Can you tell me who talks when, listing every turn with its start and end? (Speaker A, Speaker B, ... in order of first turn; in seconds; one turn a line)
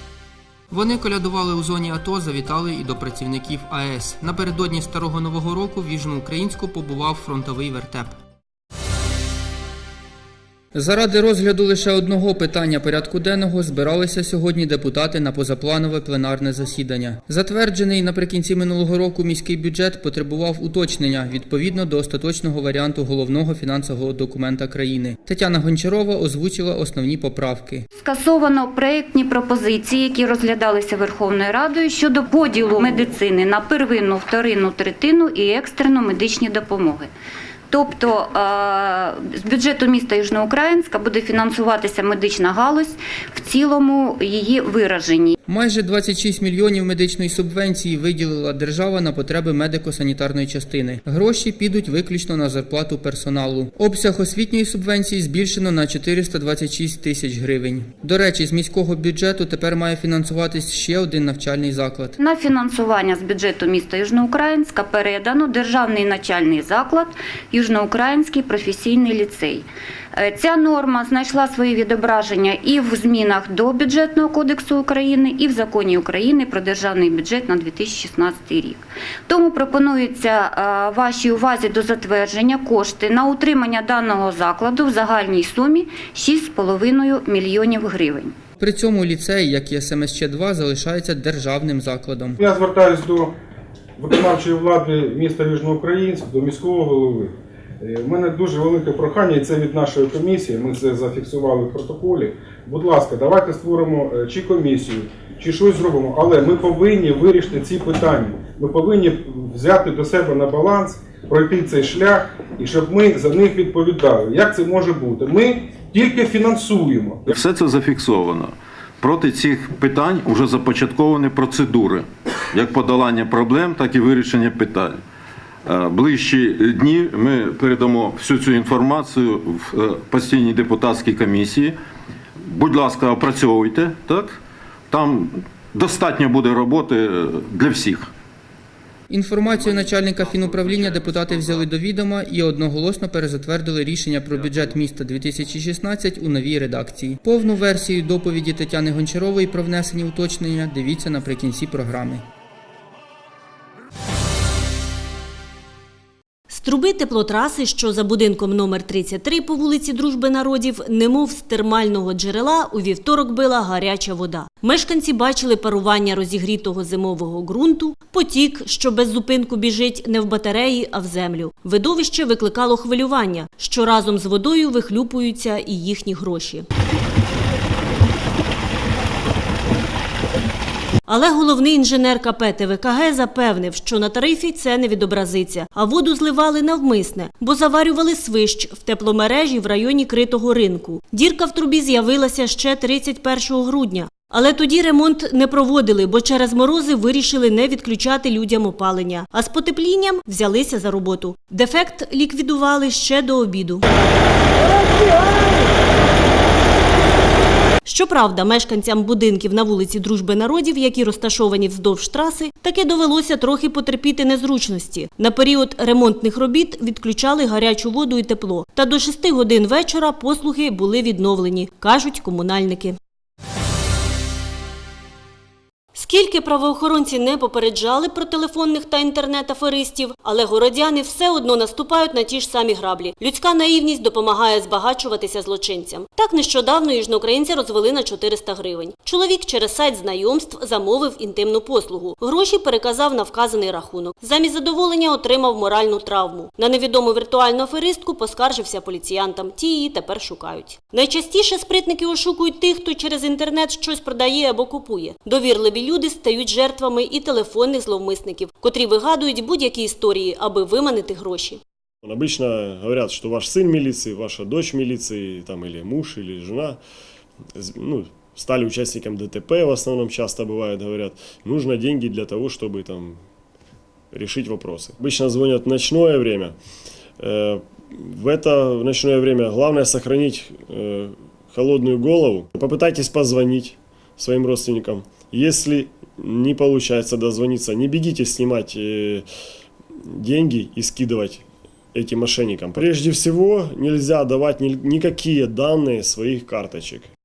Speaker A: 0.7-8.2
Speaker A: 10.7-27.8
Speaker B: 28.0-37.1
Speaker B: 37.7-45.4
Speaker A: 45.5-62.1
Speaker B: 62.2-69.6
Speaker B: 70.2-88.3
Speaker A: 88.6-92.4
Speaker C: 92.4-93.3
Speaker C: 94.0-117.4
Speaker D: 117.3-125.0
Speaker D: 125.6-131.8
Speaker D: 132.4-134.4
Speaker D: 134.9-138.1
Speaker A: 139.1-152.2
Speaker D: 140.8-141.4
Speaker E: 156.5-176.7
Speaker E: 181.1-203.8
Speaker E: 204.8-205.5
Speaker E: 207.8-223.0
Speaker E: 225.9-261.6
Speaker F: 262.0-266.8
Speaker F: 267.5-273.2
Speaker F: 274.1-276.6
Speaker F: 277.2-289.3
Speaker F: 289.9-297.1